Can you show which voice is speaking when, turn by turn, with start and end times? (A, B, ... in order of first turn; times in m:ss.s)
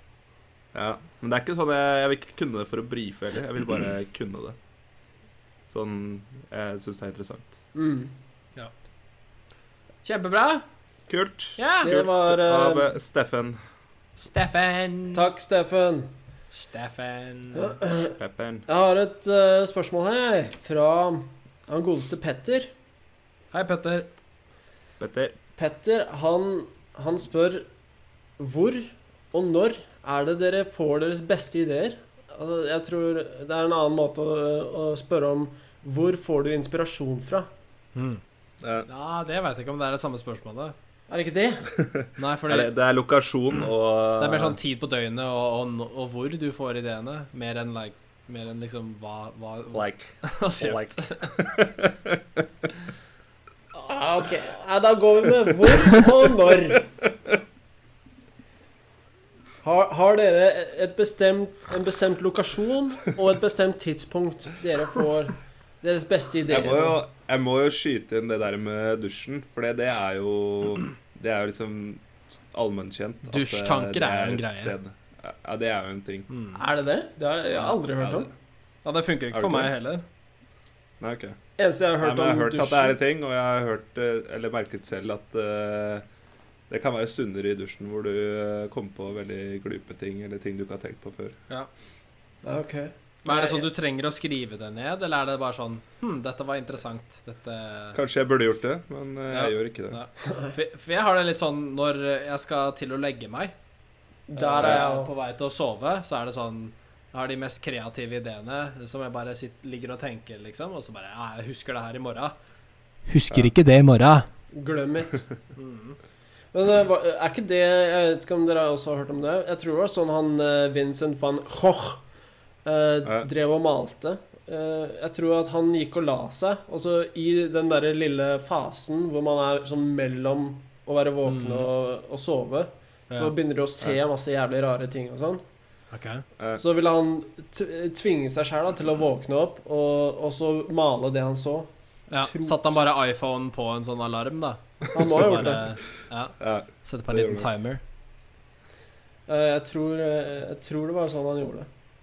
0:00.7-0:04.6 A
0:05.7-0:07.5 A
0:07.7-0:08.1 B
0:10.0-0:10.6 C
0:11.1-0:13.6 A
0:11.6-0:11.9 C
0:11.8-0:12.9 B
0:14.2-0:15.3 C
0:15.1-0:16.1 B
0:16.5-0:17.8 C
0:17.6-0:22.7 B
0:18.2-0:18.6 A
0:23.5-0:24.1 C
0:25.0-0:25.4 A
0:25.6-0:27.7 B
0:28.4-0:37.5 B
0:37.9-0:38.2 C
0:38.6-0:38.9 A
0:38.8-0:40.7 C
0:41.1-0:41.7 B
0:41.7-0:44.6 A
0:42.2-0:42.7 C
0:44.2-0:51.3 C
0:49.7-0:52.4 A
0:53.7-0:56.8 B
0:57.0-0:57.4 A
0:59.6-1:07.0 B
1:06.5-1:16.3 A
1:13.3-1:14.7 C
1:16.3-1:16.6 C
1:16.5-1:18.3 B
1:18.0-1:18.3 A
1:18.8-1:20.0 C
1:19.3-1:19.7 A
1:21.0-1:21.4 A
1:21.6-1:23.0 B
1:22.0-1:26.0 A
1:26.7-1:31.4 A
1:32.4-1:33.7 B
1:33.2-1:38.0 C
1:37.9-1:40.0 A
1:39.3-1:43.5 C
1:44.3-1:45.1 B
1:44.4-1:52.3 C
1:53.1-1:54.3 C
1:54.5-1:55.3 B
1:55.6-1:56.0 C
1:56.5-2:02.0 B
2:02.6-2:15.4 B
2:11.2-2:11.7 C
2:15.9-2:16.2 C
2:16.6-2:22.7 B
2:22.1-2:27.8 C
2:24.9-2:25.6 A
2:24.9-2:25.7 B
2:26.4-2:27.5 A
2:29.3-2:31.7 B